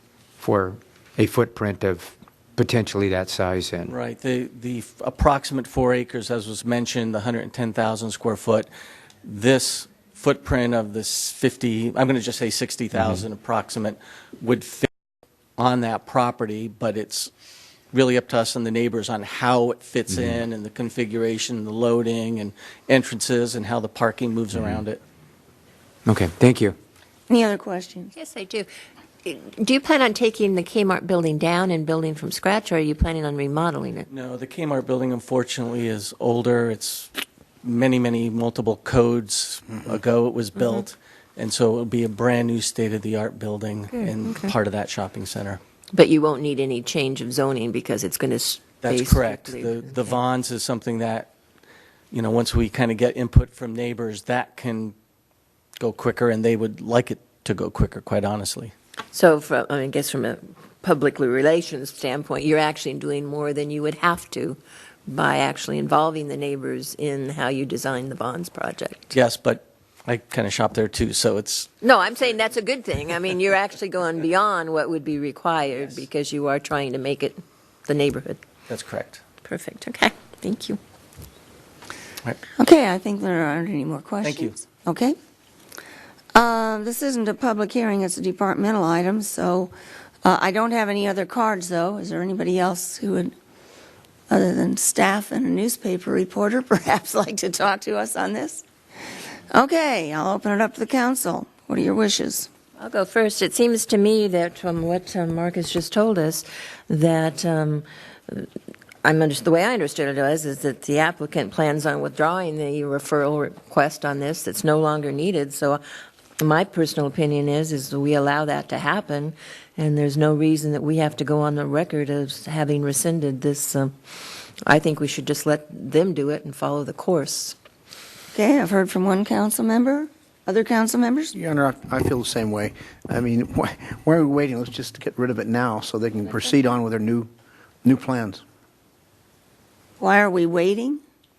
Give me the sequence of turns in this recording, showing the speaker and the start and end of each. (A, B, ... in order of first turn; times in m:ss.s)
0:00.4-0:03.9 A
0:03.9-0:08.7 B
0:09.2-0:14.9 B
0:15.6-0:17.3 B
0:17.9-0:25.0 B
0:24.5-0:24.8 A
0:26.0-0:26.8 A
0:27.3-0:28.1 C
0:28.2-0:28.7 D
0:29.2-0:34.1 D
0:34.1-0:37.1 B
0:37.6-0:45.6 B
0:45.9-0:50.1 D
0:48.8-0:51.3 B
0:52.1-0:54.9 B
0:55.8-0:58.7 B
0:59.1-1:09.1 D
1:09.1-1:11.7 B
1:11.8-1:18.4 D
1:18.7-1:19.2 B
1:19.4-1:20.8 D
1:22.6-1:25.2 C
1:24.2-1:24.5 B
1:26.3-1:29.7 C
1:30.2-1:33.3 C
1:34.3-1:38.6 C
1:39.5-1:42.5 C
1:42.8-1:48.5 D
1:49.0-1:55.8 D
1:56.4-2:03.9 D
2:04.6-2:07.6 D
2:08.3-2:11.3 C
2:11.3-2:17.3 E
2:17.8-2:18.4 E
2:20.0-2:21.0 C